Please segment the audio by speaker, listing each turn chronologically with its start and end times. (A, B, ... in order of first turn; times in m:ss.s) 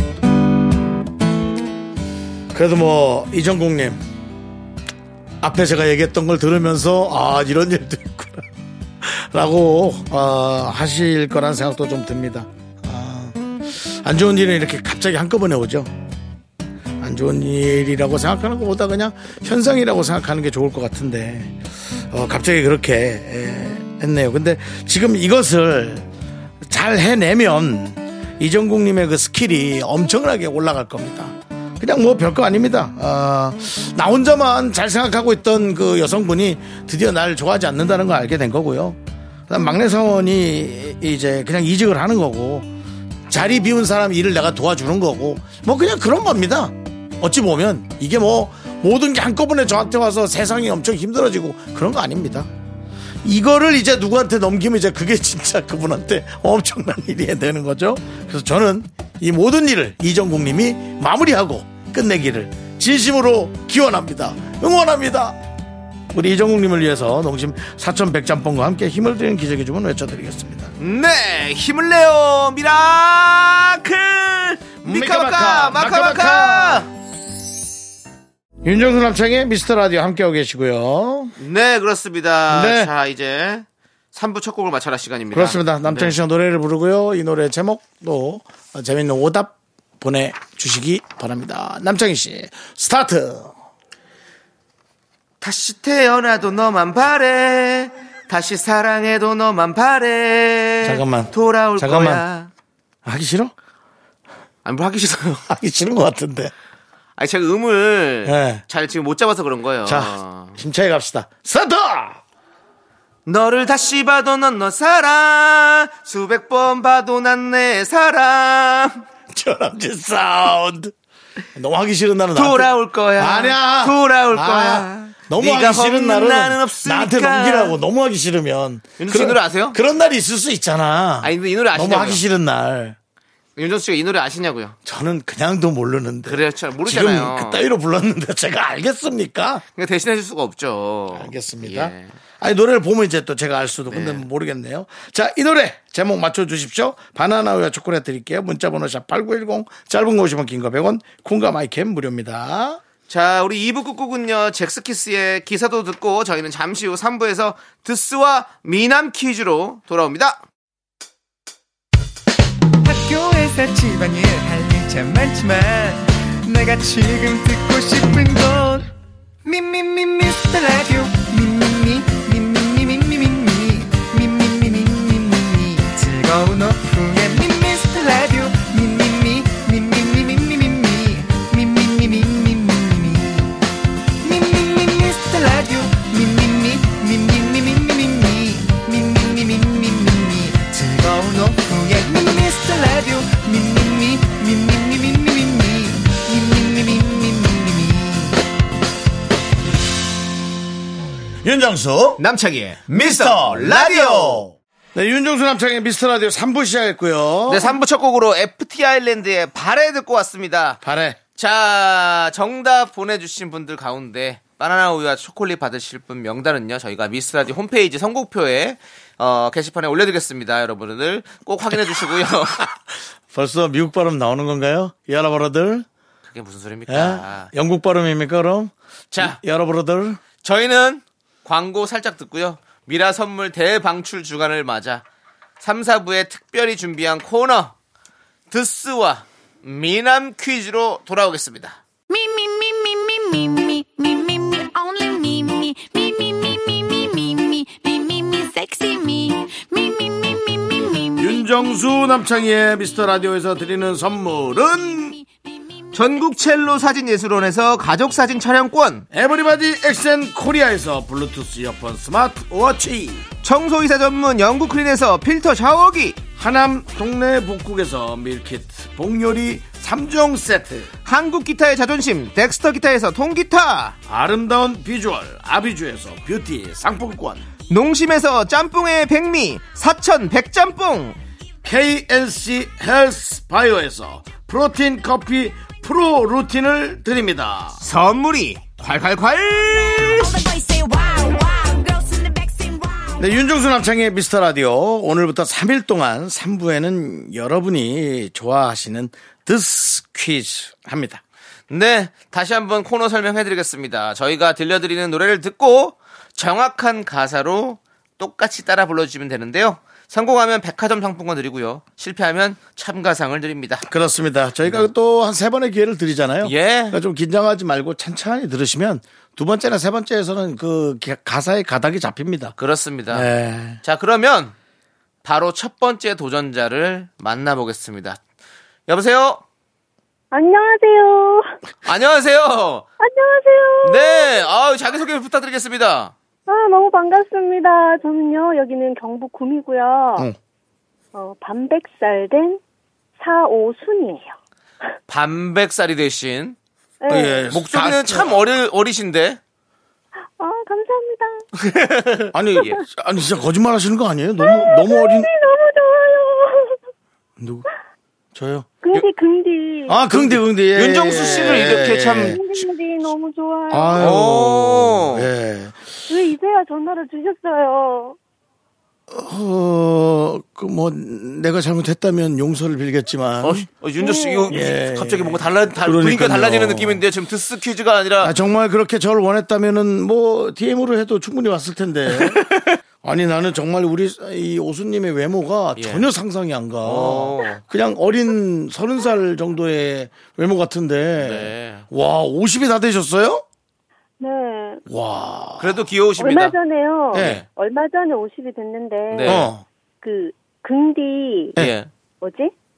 0:02.5-0:04.0 A
0:05.4-0:08.5 A
0:09.0-0:15.9 A
0:17.0-0:21.6 A
0:22.1-0:26.1 A
0:26.6-0:42.7 A
0:43.3-0:52.5 A
0:53.2-1:05.4 A
1:06.1-1:10.7 A
1:10.8-1:16.9 B
1:14.8-1:16.9 A
1:18.6-1:21.3 A
1:21.4-1:26.2 B
1:22.5-1:22.9 A
1:25.3-1:33.5 A
1:35.4-1:42.5 B
1:40.8-1:42.2 A
1:43.0-1:43.5 A
1:44.6-1:45.4 B
1:45.5-1:46.5 A
1:47.2-1:50.6 B
1:48.2-1:48.6 A
1:49.8-1:52.2 A
1:53.2-1:59.0 B
1:59.3-2:00.9 A
2:01.5-2:13.0 A
2:02.3-2:07.8 B
2:09.0-2:09.8 B
2:11.2-2:12.2 B
2:13.6-2:14.8 B
2:14.8-2:19.6 A
2:16.2-2:17.6 B
2:19.8-2:22.1 B
2:21.1-2:32.8 A
2:23.9-2:24.2 B
2:33.1-2:40.4 B
2:42.8-2:48.9 C
2:49.4-3:03.6 C
3:04.2-3:18.4 C
3:21.4-3:22.2 A
3:22.2-3:24.5 B
3:22.9-3:27.7 A
3:27.5-3:30.8 B
3:30.8-3:31.2 A
3:31.4-3:42.7 B
3:43.3-3:45.8 A
3:46.3-3:47.5 B
3:46.9-3:50.2 A
3:49.1-3:49.4 B
3:50.4-3:55.0 B
3:55.6-3:57.7 B
3:58.5-4:01.8 B
4:02.1-4:11.4 D
4:11.2-4:15.2 A
4:15.0-4:15.8 D
4:15.9-4:19.0 B
4:19.1-4:23.3 A
4:23.4-4:26.2 B
4:26.4-4:30.9 A
4:31.0-4:34.0 B
4:34.1-4:37.4 A
4:37.7-4:41.2 B
4:41.6-4:47.8 A
4:47.8-4:50.3 B
4:49.6-4:53.3 D
4:53.2-5:01.2 A
5:01.7-5:13.8 B
5:13.8-5:22.6 A
5:16.4-5:17.0 B
5:22.6-5:23.3 B
5:23.1-5:23.8 A
5:23.8-5:24.5 B
5:25.2-5:28.2 B
5:28.9-5:29.4 B
5:30.3-5:31.5 E
5:31.8-5:32.9 B
5:33.0-5:34.4 E
5:33.8-5:36.1 B
5:36.5-5:40.3 E
5:41.1-5:42.6 E
5:43.2-5:44.4 E
5:45.1-5:46.6 B
5:47.0-5:47.4 E
5:47.1-5:48.4 A
5:47.1-5:49.4 B
5:50.4-5:51.5 E
5:51.6-5:52.8 B
5:52.3-5:55.3 A
5:54.4-5:56.8 E
5:57.4-5:57.6 A
5:58.3-5:58.7 A
5:58.8-6:00.1 E
5:59.9-6:02.4 A
6:00.1-6:02.4 B
6:01.1-6:04.1 E
6:03.7-6:05.8 A
6:04.0-6:05.3 B
6:06.1-6:08.2 E
6:09.1-6:13.7 A
6:13.4-6:18.3 B
6:14.0-6:14.6 E
6:14.5-6:17.0 A
6:18.2-6:22.4 A
6:22.1-6:22.8 B
6:23.0-6:33.4 A
6:25.8-6:26.1 B
6:26.8-6:27.6 B
6:31.2-6:31.8 B
6:34.2-6:34.8 E
6:34.9-6:35.8 A
6:35.6-6:36.6 B
6:36.2-6:39.5 E
6:37.1-6:37.4 A
6:37.1-6:37.4 B
6:39.1-6:39.5 B
6:39.2-6:39.6 A
6:40.0-6:41.5 E
6:41.6-6:41.9 B
6:42.2-6:42.5 E